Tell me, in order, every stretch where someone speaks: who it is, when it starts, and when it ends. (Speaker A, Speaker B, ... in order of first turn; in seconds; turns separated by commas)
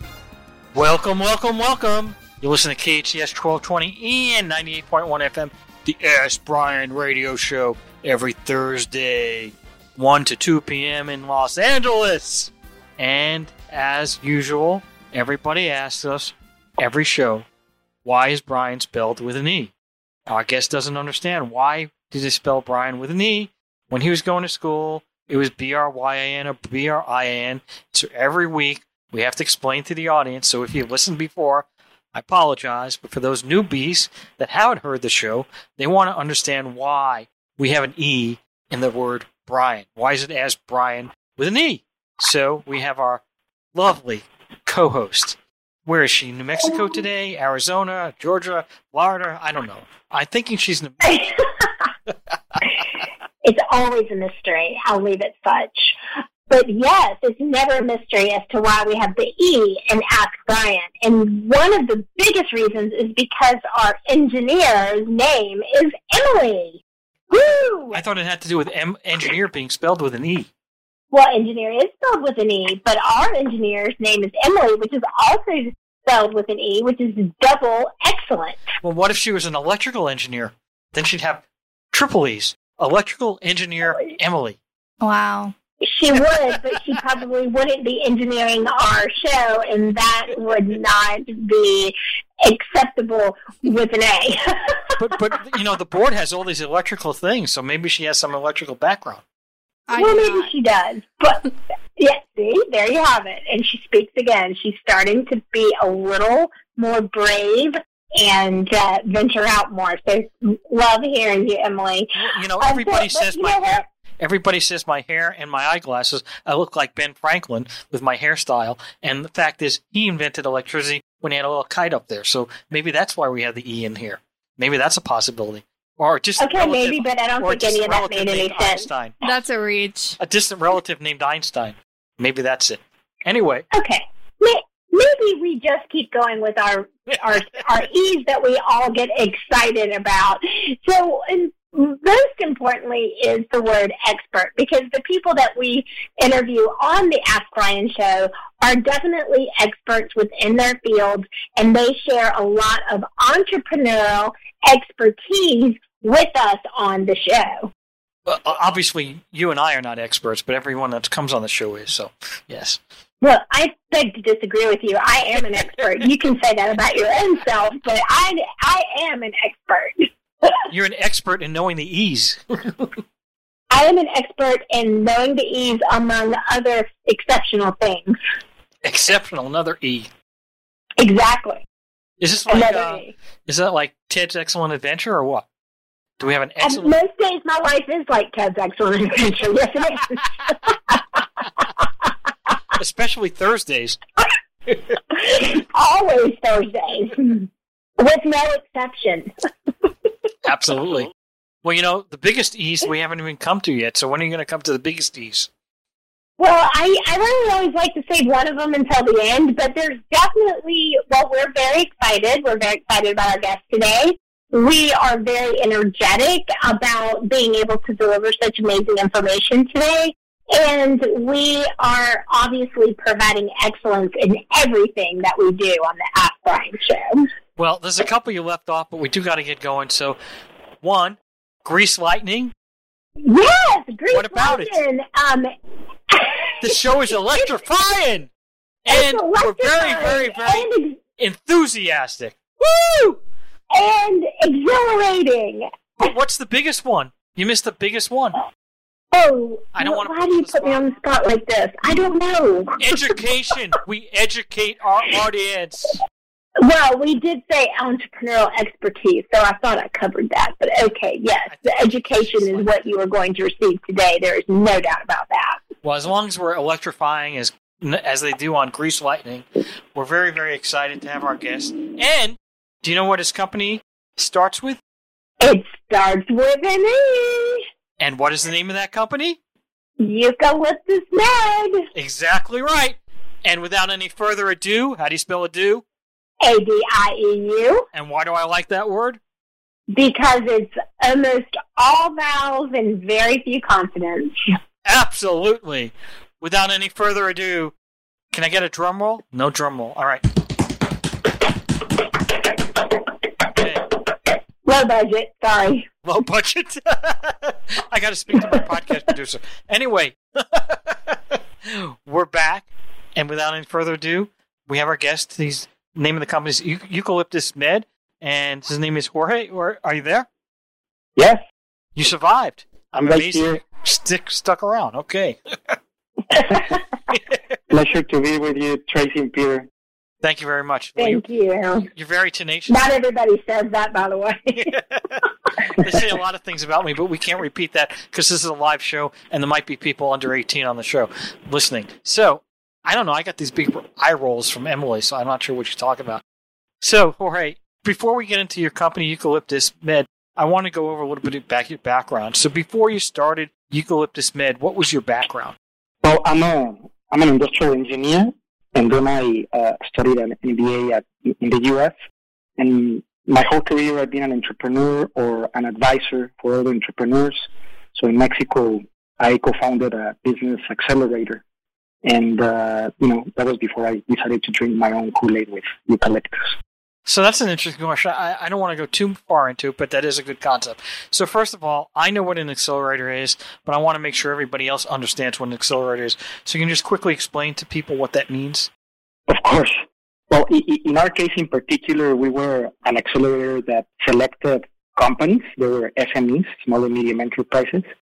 Speaker A: 0.7-17.5, Speaker A: 18.1-19.7, Speaker A: 20.3-43.2, Speaker A: 43.7-51.2, Speaker B: 53.4-56.0, Speaker B: 56.5-66.8, Speaker B: 67.3-68.0, Speaker A: 67.9-70.5, Speaker B: 71.1-78.6, Speaker A: 78.8-84.6, Speaker C: 85.0-85.5, Speaker B: 85.8-95.1, Speaker A: 95.0-99.2, Speaker C: 99.9-100.5, Speaker B: 100.0-113.8, Speaker A: 112.2-129.2, Speaker B: 126.4-128.9, Speaker C: 129.2-130.2, Speaker A: 130.2-133.7, Speaker B: 133.7-157.7, Speaker A: 158.3-162.8, Speaker B: 163.2-170.6, Speaker A: 170.7-172.9, Speaker B: 173.7-178.2, Speaker A: 178.8-180.1, Speaker B: 181.0-181.6, Speaker A: 182.2-185.5, Speaker B: 182.5-183.1, Speaker A: 186.2-186.9, Speaker B: 186.6-191.0, Speaker A: 192.8-194.0, Speaker B: 195.1-199.3, Speaker A: 200.4-201.1, Speaker A: 201.6-205.5, Speaker B: 206.4-227.3, Speaker A: 227.6-230.2, Speaker A: 230.8-232.5, Speaker B: 233.2-235.5, Speaker A: 234.1-234.8, Speaker B: 236.1-236.8, Speaker A: 236.6-238.3, Speaker A: 238.9-242.4, Speaker B: 238.9-241.0, Speaker B: 242.6-243.2, Speaker B: 243.7-245.7, Speaker A: 246.0-248.4, Speaker B: 249.1-252.9, Speaker A: 249.8-250.9, Speaker A: 252.8-256.0, Speaker B: 256.6-265.6, Speaker A: 261.5-262.9, Speaker A: 265.8-274.8, Speaker B: 275.4-277.6, Speaker A: 278.0-279.4, Speaker B: 280.0-281.9, Speaker A: 281.9-285.8, Speaker B: 286.4-287.9, Speaker A: 287.9-289.2, Speaker B: 289.9-294.4, Speaker A: 294.9-297.7, Speaker A: 298.3-300.6, Speaker A: 303.5-303.9, Speaker B: 304.6-305.9, Speaker A: 306.1-320.3, Speaker D: 321.2-321.4, Speaker A: 322.0-325.8, Speaker D: 323.0-323.6, Speaker D: 327.7-329.7, Speaker A: 330.2-331.2, Speaker B: 331.0-331.9, Speaker A: 331.9-332.8, Speaker B: 332.7-334.8, Speaker A: 335.7-346.2, Speaker A: 346.8-355.6, Speaker D: 356.0-361.9, Speaker D: 362.6-367.4, Speaker D: 367.9-371.4, Speaker D: 372.0-376.6, Speaker A: 377.1-388.7, Speaker D: 389.3-389.8, Speaker D: 390.3-397.9